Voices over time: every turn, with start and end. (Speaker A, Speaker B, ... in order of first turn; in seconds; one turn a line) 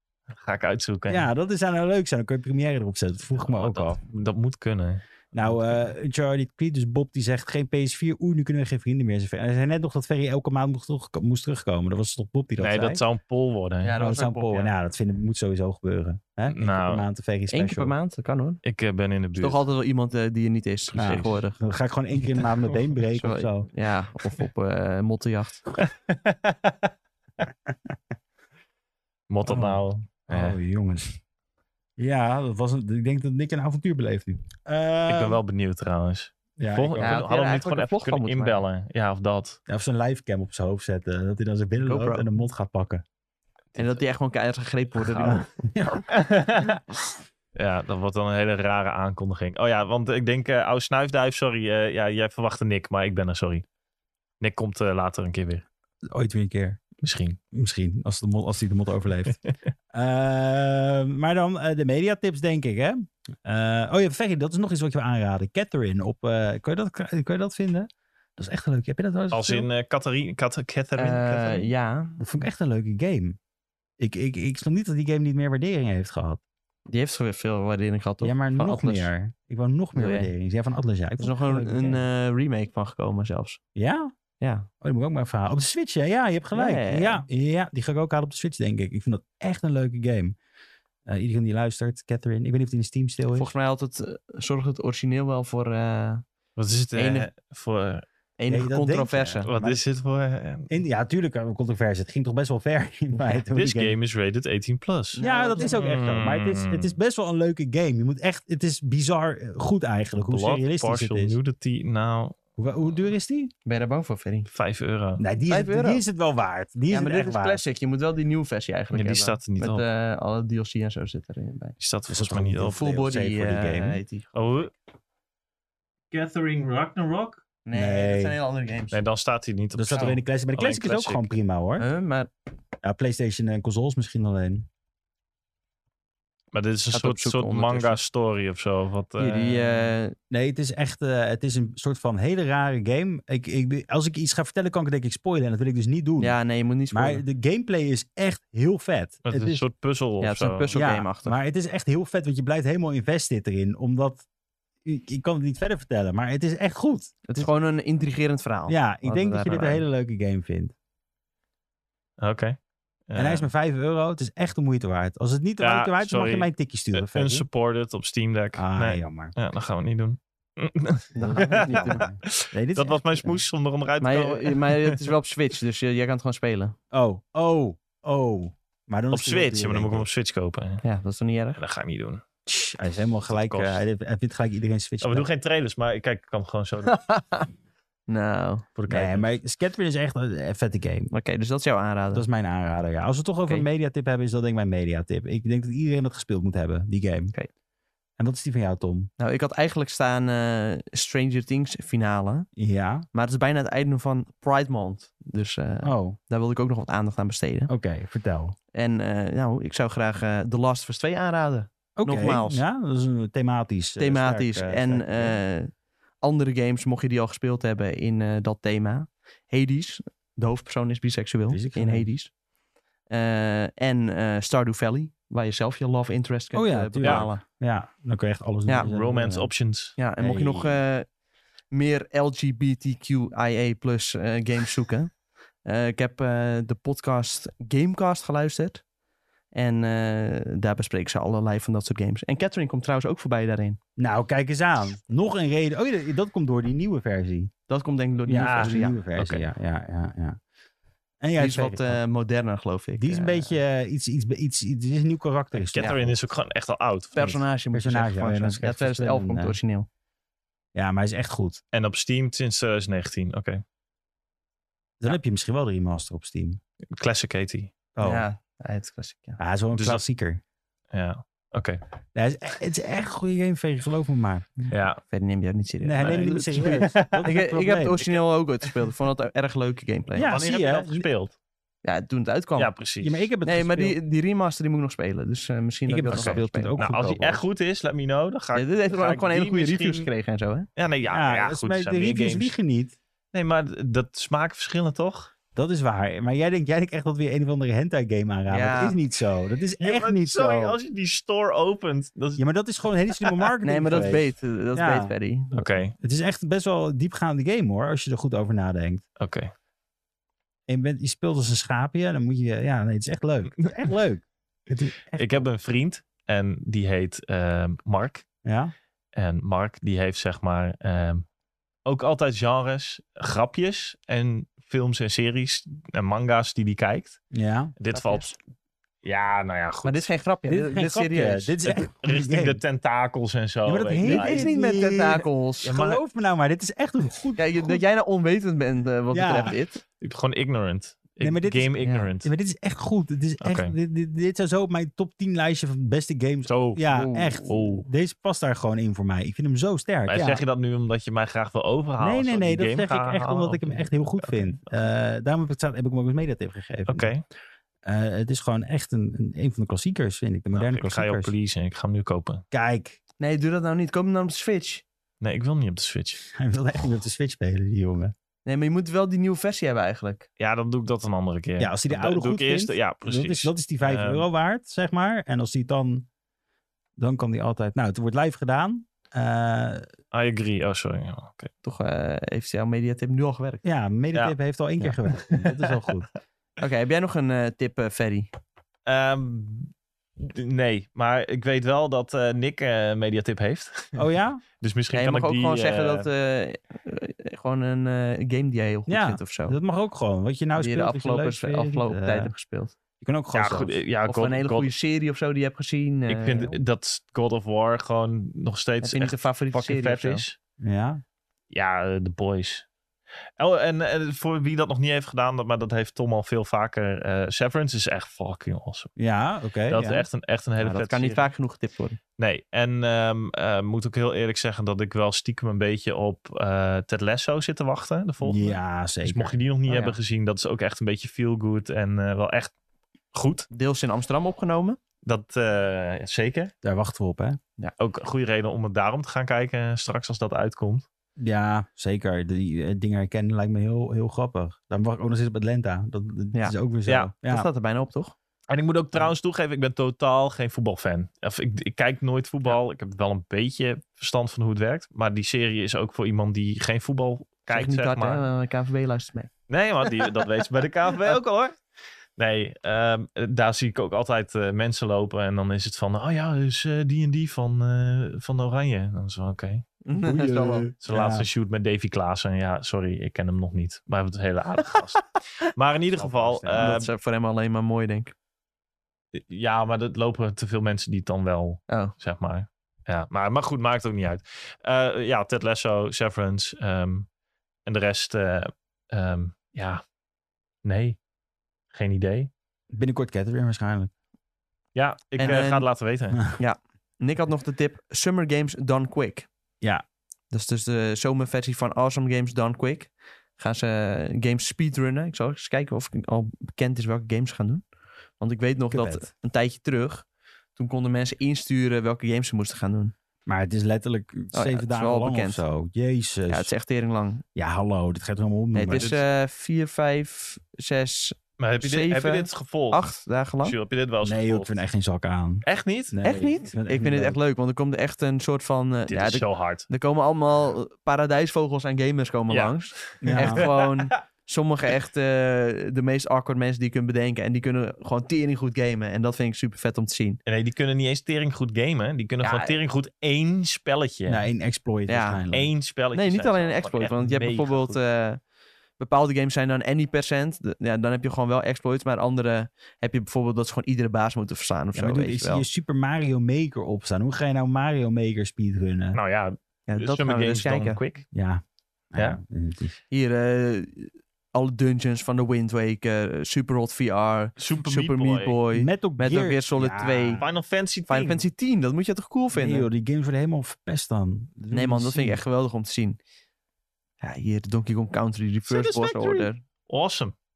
Speaker A: 0.3-1.3
Speaker B: 1.1-4.0
Speaker A: 3.4-5.7
Speaker B: 5.3-13.0
Speaker A: 12.6-13.9
Speaker C: 13.8-14.7
Speaker B: 14.0-17.9
Speaker A: 16.5-17.0
Speaker C: 17.5-18.6
Speaker A: 18.6-19.6
Speaker C: 19.4-21.6
Speaker A: 20.9-21.4
Speaker B: 20.9-23.7
Speaker C: 23.1-25.6
Speaker A: 25.8-26.8
Speaker A: 29.3-30.6
Speaker B: 29.4-31.2
Speaker B: 32.0-35.4
Speaker A: 35.1-39.6
Speaker B: 36.6-37.2
Speaker C: 37.0-38.6
Speaker B: 39.7-43.0
Speaker C: 41.8-42.3
Speaker C: 43.8-45.5
Speaker B: 45.0-46.1
Speaker A: 46.1-46.8
Speaker A: 47.5-53.6
Speaker A: 54.4-55.6
Speaker B: 56.1-56.8
Speaker A: 57.0-57.4
Speaker B: 57.5-59.4
Speaker B: 59.9-69.7
Speaker A: 69.3-71.7
Speaker C: 71.0-72.2
Speaker B: 72.2-73.4
Speaker B: 74.0-76.4
Speaker C: 76.9-79.1
Speaker B: 78.2-82.0
Speaker C: 79.9-80.3
Speaker C: 81.2-83.6
Speaker B: 83.8-84.1
Speaker C: 84.4-84.7
Speaker B: 84.8-90.3
Speaker C: 86.5-87.2
Speaker B: 91.1-93.5
Speaker C: 93.3-96.2
Speaker A: 96.5-98.0
Speaker C: 96.9-97.3
Speaker C: 98.4-99.5
Speaker B: 98.5-99.8
Speaker A: 99.4-100.7
Speaker B: 100.7-104.0
Speaker A: 103.5-107.0
Speaker C: 105.1-105.9
Speaker B: 105.2-111.4
Speaker A: 110.2-112.4
Speaker B: 112.6-113.5
Speaker C: 113.7-114.5
Speaker A: 114.5-115.2
Speaker B: 115.2-117.6
Speaker C: 115.5-116.0
Speaker C: 116.9-121.8
Speaker A: 118.9-119.8
Speaker A: 121.8-122.8
Speaker B: 122.1-124.0
Speaker C: 122.7-124.4
Speaker A: 124.3-124.7
Speaker A: 126.1-127.4
Speaker C: 127.6-129.0
Speaker B: 127.7-128.4
Speaker A: 128.9-131.2
Speaker B: 129.8-131.8
Speaker C: 131.8-132.3
Speaker B: 132.8-134.7
Speaker A: 136.5-139.9
Speaker C: 136.9-138.0
Speaker C: 139.2-140.2
Speaker B: 140.3-146.3
Speaker C: 146.2-147.2
Speaker B: 146.9-149.6
Speaker A: 149.2-150.7
Speaker C: 150.2-151.3
Speaker B: 150.7-154.2
Speaker B: 154.8-157.2
Speaker C: 157.3-159.8
Speaker B: 158.7-160.7
Speaker A: 162.2-162.6
Speaker A: 163.1-163.5
Speaker B: 163.2-167.5
Speaker A: 165.6-175.0
Speaker B: 168.6-169.3
Speaker C: 171.1-172.1
Speaker B: 171.2-173.1
Speaker C: 174.0-176.8
Speaker B: 176.9-180.1
Speaker A: 179.1-180.8
Speaker C: 180.8-181.6
Speaker A: 181.6-182.2
Speaker B: 182.4-185.3
Speaker A: 183.3-183.8
Speaker A: 185.0-187.0
Speaker C: 186.9-187.5
Speaker C: 188.1-188.7
Speaker A: 188.8-189.3
Speaker B: 188.9-191.1
Speaker C: 191.1-192.2
Speaker B: 192.1-197.3
Speaker B: 198.2-199.1
Speaker C: 199.2-202.5
Speaker B: 202.6-203.1
Speaker C: 203.1-207.7
Speaker B: 205.8-206.2
Speaker B: 207.7-208.6
Speaker C: 208.7-212.6
Speaker B: 212.0-215.4
Speaker C: 214.0-222.3
Speaker B: 221.5-222.1
Speaker C: 223.1-227.4
Speaker B: 226.5-229.5
Speaker A: 228.8-230.0
Speaker C: 230.0-231.1
Speaker B: 230.2-230.8
Speaker C: 231.7-238.8
Speaker C: 239.5-243.8
Speaker B: 244.0-247.5
Speaker C: 247.7-249.0
Speaker B: 248.3-250.4
Speaker A: 248.4-249.5
Speaker B: 251.2-252.0
Speaker C: 251.3-253.5
Speaker B: 253.0-256.1
Speaker A: 255.5-257.4
Speaker C: 257.1-259.9
Speaker B: 257.7-259.6
Speaker B: 260.7-261.6
Speaker A: 261.7-263.6
Speaker B: 265.0-266.6
Speaker A: 266.9-267.7
Speaker B: 267.9-268.2
Speaker C: 268.0-269.4
Speaker B: 269.4-270.4
Speaker A: 269.7-270.0
Speaker A: 270.9-271.8
Speaker B: 272.1-274.7
Speaker A: 274.7-275.0
Speaker C: 275.1-280.3
Speaker B: 275.8-278.0
Speaker A: 276.0-277.2
Speaker B: 280.1-281.1
Speaker A: 280.2-281.3
Speaker C: 281.8-282.7
Speaker A: 282.6-283.2
Speaker B: 283.0-283.9
Speaker C: 283.4-286.8
Speaker B: 285.9-287.4
Speaker A: 286.1-290.1
Speaker C: 288.5-290.7
Speaker A: 290.8-292.5
Speaker B: 291.1-292.9
Speaker A: 293.3-295.3
Speaker B: 295.5-300.8
Speaker C: 298.5-299.0
Speaker A: 299.8-302.4
Speaker B: 302.4-305.1
Speaker C: 303.6-305.8
Speaker A: 305.5-305.9
Speaker B: 306.0-309.0
Speaker A: 309.2-309.5
Speaker B: 310.7-315.5
Speaker A: 315.1-318.2
Speaker B: 318.4-318.7
Speaker A: 319.1-321.2
Speaker A: 321.9-327.2
Speaker B: 327.3-327.7
Speaker A: 327.8-328.4
Speaker C: 327.9-328.3
Speaker A: 329.0-330.0
Speaker C: 329.8-331.5
Speaker B: 330.5-332.6
Speaker A: 331.7-334.5
Speaker B: 333.6-337.8
Speaker C: 334.0-335.8
Speaker A: 335.6-336.0
Speaker C: 337.4-339.8
Speaker B: 339.1-339.5
Speaker A: 340.0-342.3
Speaker B: 341.2-350.4
Speaker C: 341.8-342.1
Speaker A: 343.4-343.7
Speaker A: 346.5-346.9
Speaker C: 346.9-347.6
Speaker A: 347.5-347.9
Speaker A: 350.1-354.9
Speaker B: 352.0-357.1
Speaker A: 356.9-357.2
Speaker B: 357.8-361.3
Speaker A: 360.5-362.4
Speaker B: 362.5-363.0
Speaker C: 363.2-364.8
Speaker A: 365.2-366.2
Speaker B: 366.3-368.1
Speaker C: 368.4-370.2
Speaker A: 370.4-374.2
Speaker B: 371.6-376.1
Speaker B: 377.0-379.9
Speaker A: 380.1-381.5
Speaker C: 381.6-383.6
Speaker B: 383.6-386.1
Speaker C: 386.6-388.3
Speaker A: 388.9-394.0
Speaker B: 393.9-394.4
Speaker A: 394.6-396.1
Speaker C: 394.9-399.6
Speaker B: 398.9-402.3
Speaker C: 400.6-402.8
Speaker B: 403.0-403.7
Speaker A: 403.3-404.7
Speaker C: 404.1-406.6
Speaker A: 406.1-410.4
Speaker C: 408.8-410.2
Speaker B: 410.6-411.0
Speaker A: 411.5-412.6
Speaker A: 413.4-418.9
Speaker B: 419.0-420.1
Speaker A: 419.7-421.3
Speaker C: 420.6-422.0
Speaker A: 422.2-432.5
Speaker B: 428.2-429.4
Speaker C: 429.7-430.0
Speaker A: 433.1-433.5
Speaker C: 433.5-434.8
Speaker A: 435.0-436.5
Speaker B: 436.6-437.4
Speaker A: 437.8-440.8
Speaker B: 441.2-447.5
Speaker C: 447.2-448.1
Speaker A: 448.5-458.3
Speaker C: 457.5-459.3
Speaker A: 459.5-461.6
Speaker A: 462.2-469.7
Speaker C: 469.8-470.7
Speaker B: 470.0-471.3
Speaker A: 470.8-476.9
Speaker B: 475.9-476.8
Speaker C: 476.5-478.1
Speaker A: 479.1-487.1
Speaker A: 487.6-489.8
Speaker A: 490.6-491.0
Speaker A: 491.7-492.3
Speaker B: 492.7-493.9
Speaker A: 494.7-496.3
Speaker C: 495.2-495.7
Speaker C: 496.4-499.3
Speaker C: 500.3-507.6
Speaker C: 508.2-512.9
Speaker B: 508.7-509.1
Speaker B: 513.3-516.5
Speaker C: 514.3-515.4
Speaker C: 516.3-517.2
Speaker B: 517.3-519.0
Speaker C: 518.5-523.6
Speaker A: 518.7-519.0
Speaker A: 521.4-522.9
Speaker A: 523.4-524.6
Speaker B: 524.0-527.2
Speaker A: 525.4-526.0
Speaker C: 526.0-540.2
Speaker A: 528.9-529.7
Speaker A: 532.3-534.0
Speaker B: 533.0-533.4
Speaker A: 540.2-544.2
Speaker C: 542.2-542.6
Speaker B: 544.1-545.5
Speaker C: 544.9-545.2
Speaker A: 545.3-547.8
Speaker C: 545.9-548.2
Speaker C: 548.8-555.5
Speaker B: 554.7-559.0
Speaker A: 558.9-561.1
Speaker C: 559.7-560.8
Speaker B: 561.1-562.7
Speaker C: 562.9-570.2
Speaker A: 567.4-568.4
Speaker B: 568.5-570.2
Speaker A: 570.2-571.2
Speaker C: 570.9-572.7
Speaker B: 572.3-575.2
Speaker C: 574.5-576.0
Speaker C: 577.0-579.4
Speaker A: 578.5-580.1